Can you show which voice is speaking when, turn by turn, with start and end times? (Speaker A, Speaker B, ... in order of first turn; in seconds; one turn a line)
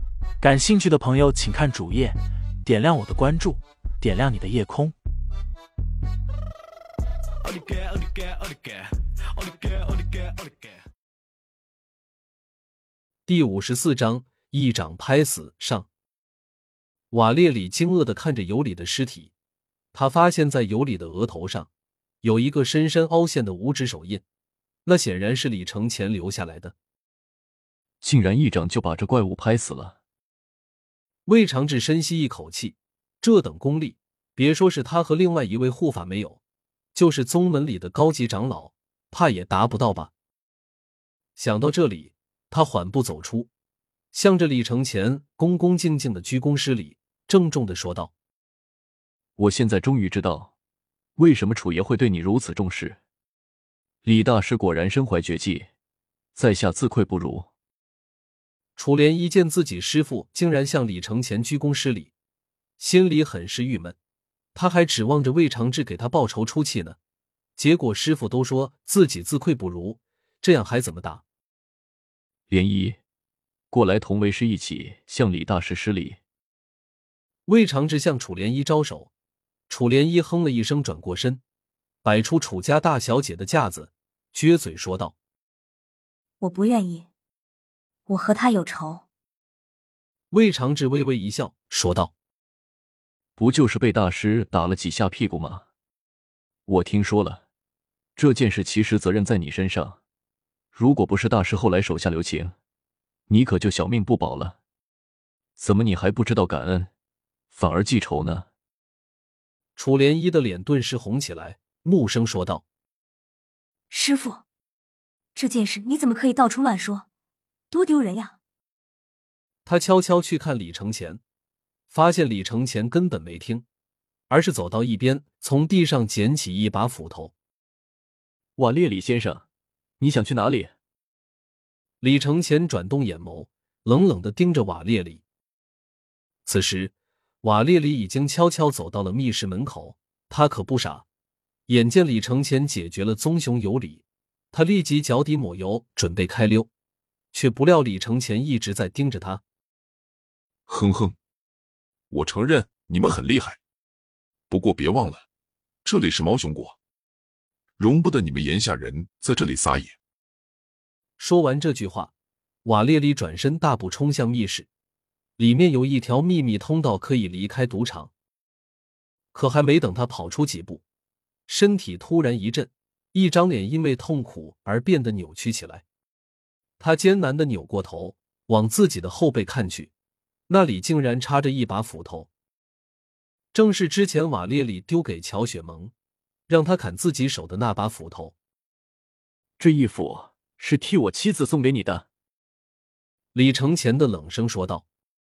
Speaker A: 0.4-4.9
Speaker B: 13.3-15.9
Speaker B: 17.1-19.3
Speaker B: 19.9-21.7
Speaker B: 22.2-24.2
Speaker B: 24.9-26.8
Speaker C: 28.0-30.0
Speaker B: 31.3-36.4
Speaker B: 37.0-40.1
Speaker B: 41.4-43.5
Speaker B: 44.1-48.1
Speaker C: 49.4-50.5
Speaker C: 51.2-53.0
Speaker C: 54.0-55.7
Speaker C: 56.4-57.5
Speaker B: 58.8-62.1
Speaker B: 62.8-64.0
Speaker B: 64.5-67.0
Speaker B: 67.6-71.2
Speaker C: 72.5-73.0
Speaker C: 73.7-76.2
Speaker B: 77.5-79.1
Speaker B: 79.7-81.4
Speaker B: 82.0-85.2
Speaker D: 86.4-87.0
Speaker D: 88.1-89.0
Speaker B: 90.3-92.1
Speaker C: 93.4-95.7
Speaker C: 96.7-97.4
Speaker C: 98.2-100.0
Speaker C: 100.7-102.5
Speaker C: 103.3-104.6
Speaker C: 105.6-106.9
Speaker C: 107.5-108.5
Speaker B: 109.8-112.6
Speaker D: 113.9-114.4
Speaker D: 115.4-117.0
Speaker D: 117.7-118.3
Speaker B: 119.7-121.2
Speaker B: 121.9-123.7
Speaker B: 124.3-127.3
Speaker C: 128.6-129.4
Speaker C: 130.0-130.7
Speaker B: 132.0-135.2
Speaker B: 136.5-141.1
Speaker B: 141.7-146.7
Speaker B: 147.3-149.4
Speaker E: 150.7-151.2
Speaker E: 152.1-153.6
Speaker E: 154.5-155.2
Speaker E: 155.8-156.8
Speaker E: 157.8-160.0
Speaker B: 161.2-162.1
Speaker B: 162.7-164.7
Speaker B: 165.4-168.1
Speaker B: 169.3-170.8
Speaker B: 171.5-175.8
Speaker B: 176.8-179.9
Speaker B: 180.5-182.3
Speaker B: 183.5-185.9
Speaker B: 186.5-188.3
Speaker C: 189.6-192.1
Speaker B: 193.3-194.8